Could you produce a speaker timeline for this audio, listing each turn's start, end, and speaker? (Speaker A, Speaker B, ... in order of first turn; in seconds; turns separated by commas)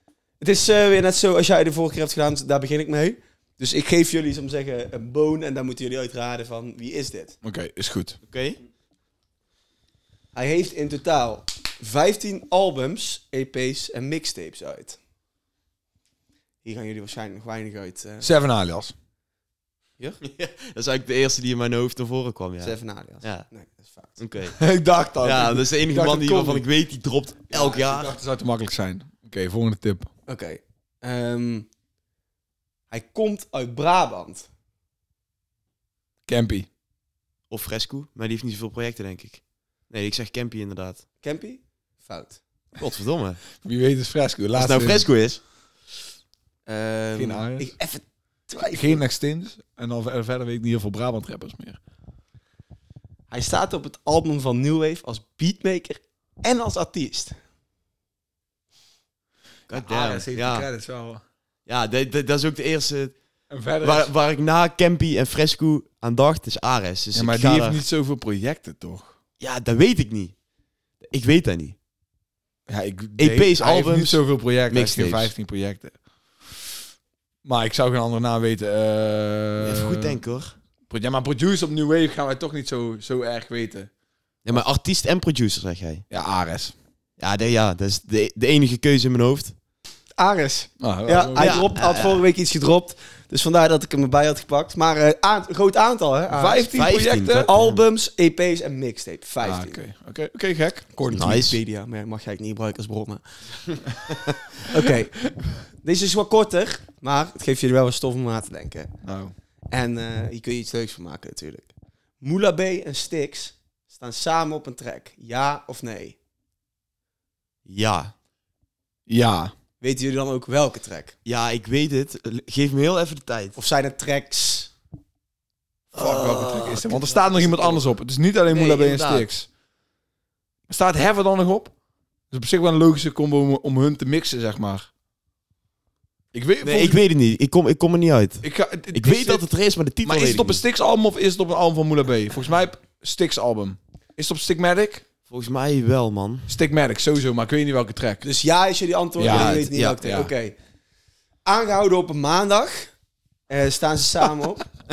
Speaker A: 0.4-7.3, Speaker B: 7.4-8.2, Speaker C: 8.2-8.6, Speaker A: 10.3-15.0, Speaker A: 16.6-18.3, Speaker B: 18.2-18.9, Speaker C: 20.2-23.5, Speaker A: 22.6-24.2, Speaker C: 24.2-24.6, Speaker B: 24.5-25.7, Speaker C: 25.2-28.1, Speaker A: 25.9-26.6, Speaker B: 27.5-30.1, Speaker A: 30.3-31.7, Speaker A: 32.9-34.5, Speaker B: 36.2-36.7, Speaker C: 37.5-41.0, Speaker A: 41.2-42.4, Speaker C: 42.8-43.4, Speaker B: 43.6-45.1, Speaker C: 44.5-45.4, Speaker A: 46.6-49.0, Speaker B: 47.1-47.7, Speaker B: 48.6-51.8, Speaker A: 53.3-57.4, Speaker C: 59.7-60.7, Speaker B: 59.7-61.2, Speaker C: 61.7-63.1, Speaker B: 63.5-64.1, Speaker C: 63.8-67.8, Speaker B: 67.1-69.2, Speaker C: 69.4-70.3, Speaker C: 71.0-71.8, Speaker B: 72.7-75.9, Speaker C: 73.2-75.3, Speaker B: 77.4-80.2, Speaker C: 79.6-80.5, Speaker B: 80.9-83.9, Speaker C: 84.4-86.0, Speaker B: 86.1-86.7, Speaker C: 87.2-89.5, Speaker A: 90.2-96.7, Speaker B: 90.8-91.8, Speaker C: 91.3-92.2, Speaker B: 96.3-97.5, Speaker C: 96.7-97.8, Speaker A: 97.4-99.8, Speaker B: 99.4-101.3, Speaker A: 101.0-103.8, Speaker C: 101.1-101.6, Speaker A: 104.6-105.2, Speaker A: 105.8-108.9, Speaker B: 109.0-109.3, Speaker A: 109.7-116.2, Speaker C: 117.7-118.1, Speaker B: 119.1-119.5, Speaker A: 119.8-121.1, Speaker C: 121.2-123.6, Speaker A: 123.5-124.7, Speaker B: 125.9-129.5, Speaker C: 125.9-127.8, Speaker C: 128.5-129.2, Speaker B: 130.7-131.7, Speaker B: 132.3-134.9, Speaker B: 136.3-137.0, Speaker C: 136.6-140.6, Speaker B: 138.4-139.4, Speaker B: 140.0-145.0, Speaker C: 145.3-146.5, Speaker B: 146.5-148.2, Speaker A: 148.2-150.5, Speaker B: 149.2-150.3, Speaker C: 149.2-150.0, Speaker A: 151.4-152.9, Speaker A: 153.5-154.6